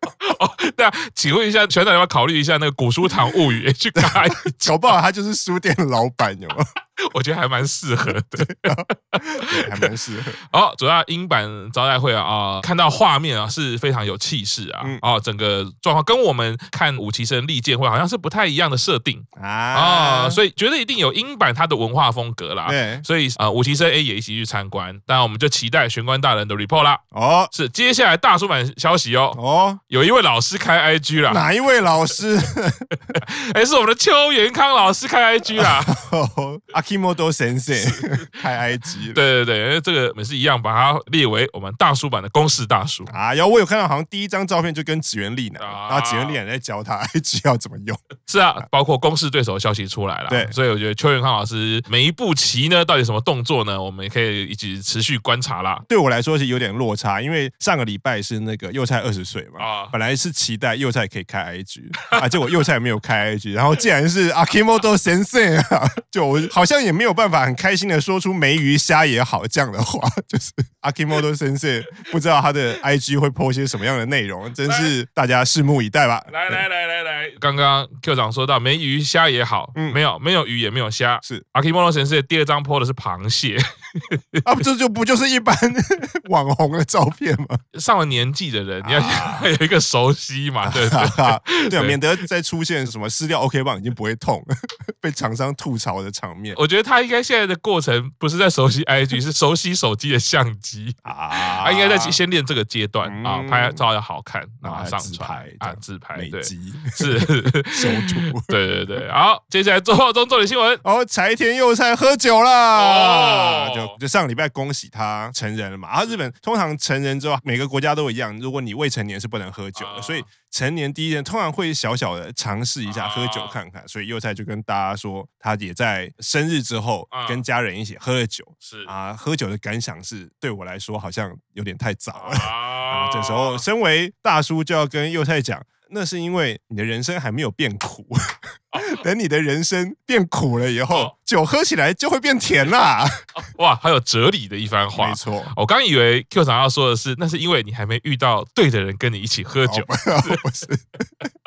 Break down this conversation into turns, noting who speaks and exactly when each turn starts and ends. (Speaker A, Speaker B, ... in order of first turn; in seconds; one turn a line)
Speaker A: 0.2-4.9
Speaker B: 4.0-6.6
Speaker A: 7.0-29.4
Speaker B: 8.4-10.4
Speaker B: 19.4-20.4
Speaker B: 22.6-23.1
Speaker B: 27.1-27.5
Speaker B: 29.3-29.8
Speaker A: 29.9-31.4
Speaker B: 31.2-33.1
Speaker A: 33.1-35.9
Speaker B: 35.5-39.2
Speaker A: 37.7-38.3
Speaker A: 39.1-43.1
Speaker B: 43.1-48.0
Speaker A: 45.6-46.4
Speaker A: 48.2-55.8
Speaker B: 50.3-50.5
Speaker B: 55.9-76.6
Speaker A: 59.6-59.9
Speaker A: 74.6-74.9
Speaker A: 76.3-84.4
Speaker B: 79.8-80.0
Speaker B: 84.5-87.6
Speaker A: 87.7-92.0
Speaker B: 88.8-89.5
Speaker B: 90.6-94.5
Speaker B: 95.0-96.6
Speaker A: 96.6-110.8
Speaker B: 101.0-102.2
Speaker B: 103.0-103.8
Speaker B: 104.6-108.5
Speaker B: 110.8-138.2
Speaker A: 112.7-113.9
Speaker A: 119.8-120.2
Speaker A: 122.9-123.6
Speaker A: 127.1-127.4
Speaker A: 128.6-128.9
Speaker A: 132.1-133.6
Speaker A: 138.7-139.0
Speaker B: 138.7-143.2
Speaker A: 143.4-150.4
Speaker B: 144.9-145.5
Speaker B: 149.6-150.8